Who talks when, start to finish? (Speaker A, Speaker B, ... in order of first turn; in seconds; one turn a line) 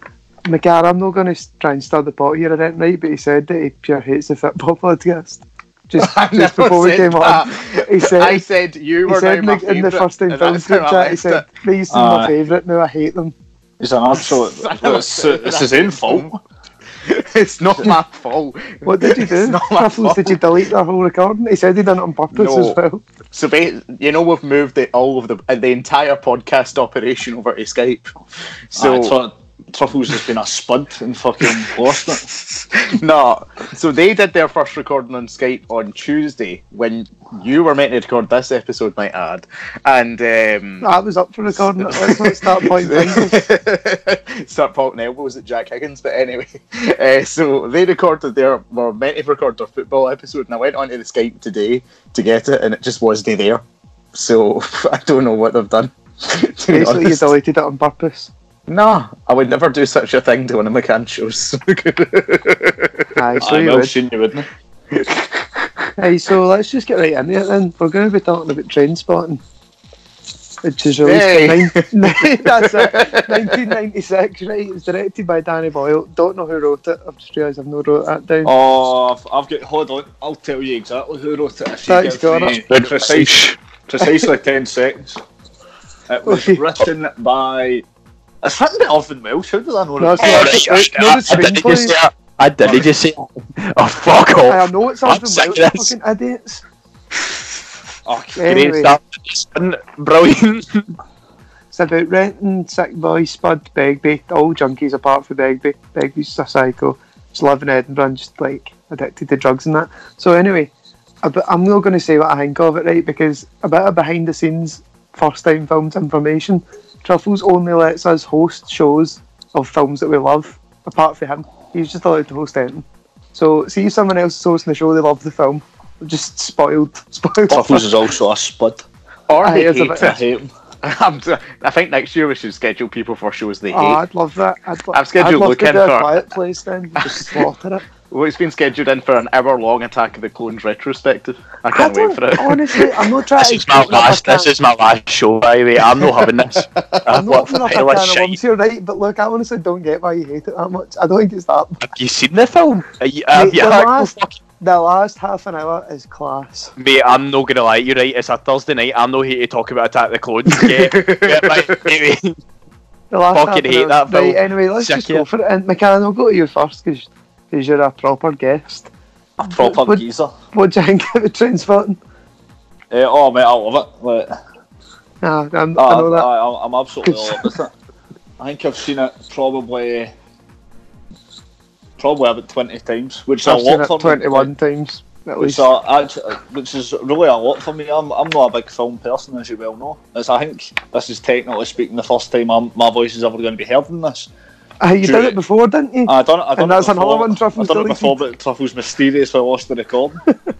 Speaker A: 0.4-8.4
Speaker B: 6.0-11.4
Speaker A: 9.1-13.3
Speaker C: 11.9-12.3
Speaker C: 13.8-16.4
Speaker B: 14.1-16.3
Speaker B: 17.0-20.4
Speaker A: 18.8-23.0
Speaker B: 22.3-22.8
Speaker B: 23.3-28.1
Speaker B: 28.7-29.2
Speaker C: 28.7-32.3
Speaker B: 32.1-40.9
Speaker A: 40.8-43.4
Speaker B: 41.8-53.6
Speaker B: 54.1-57.3
Speaker A: 56.7-58.3
Speaker B: 58.7-63.0
Speaker A: 63.1-63.9
Speaker C: 63.4-64.5
Speaker B: 64.9-65.6
Speaker A: 66.0-69.4
Speaker A: 70.6-78.5
Speaker B: 71.0-73.7
Speaker C: 78.4-85.2
Speaker A: 81.9-82.6
Speaker D: 82.7-83.5
Speaker C: 86.1-87.8
Speaker A: 86.2-86.6
Speaker C: 88.4-90.7
Speaker A: 90.0-92.0
Speaker D: 90.2-95.9
Speaker A: 94.5-96.6
Speaker C: 98.0-98.6
Speaker A: 98.3-99.0
Speaker D: 98.5-100.8
Speaker A: 101.7-110.7
Speaker A: 111.2-127.9
Speaker C: 127.5-128.8
Speaker B: 129.3-130.2
Speaker A: 129.4-130.2
Speaker C: 129.9-130.5
Speaker B: 130.8-134.0
Speaker A: 133.7-137.8
Speaker B: 134.9-136.2
Speaker B: 137.0-137.4
Speaker B: 138.1-142.9
Speaker A: 141.7-144.5
Speaker D: 143.4-148.4
Speaker B: 145.9-147.0
Speaker A: 147.1-151.8
Speaker D: 151.8-154.4
Speaker A: 153.3-156.7
Speaker D: 156.8-162.4
Speaker B: 160.5-161.9
Speaker A: 163.1-168.9
Speaker D: 163.3-165.2
Speaker C: 169.4-170.3
Speaker A: 169.5-172.0
Speaker C: 172.9-174.3
Speaker A: 175.2-176.3
Speaker C: 175.8-177.7
Speaker A: 177.0-177.5
Speaker C: 178.4-180.1
Speaker C: 182.0-184.5
Speaker A: 183.4-185.7
Speaker C: 185.4-194.3
Speaker A: 194.8-198.2
Speaker C: 195.0-195.4
Speaker C: 196.1-200.2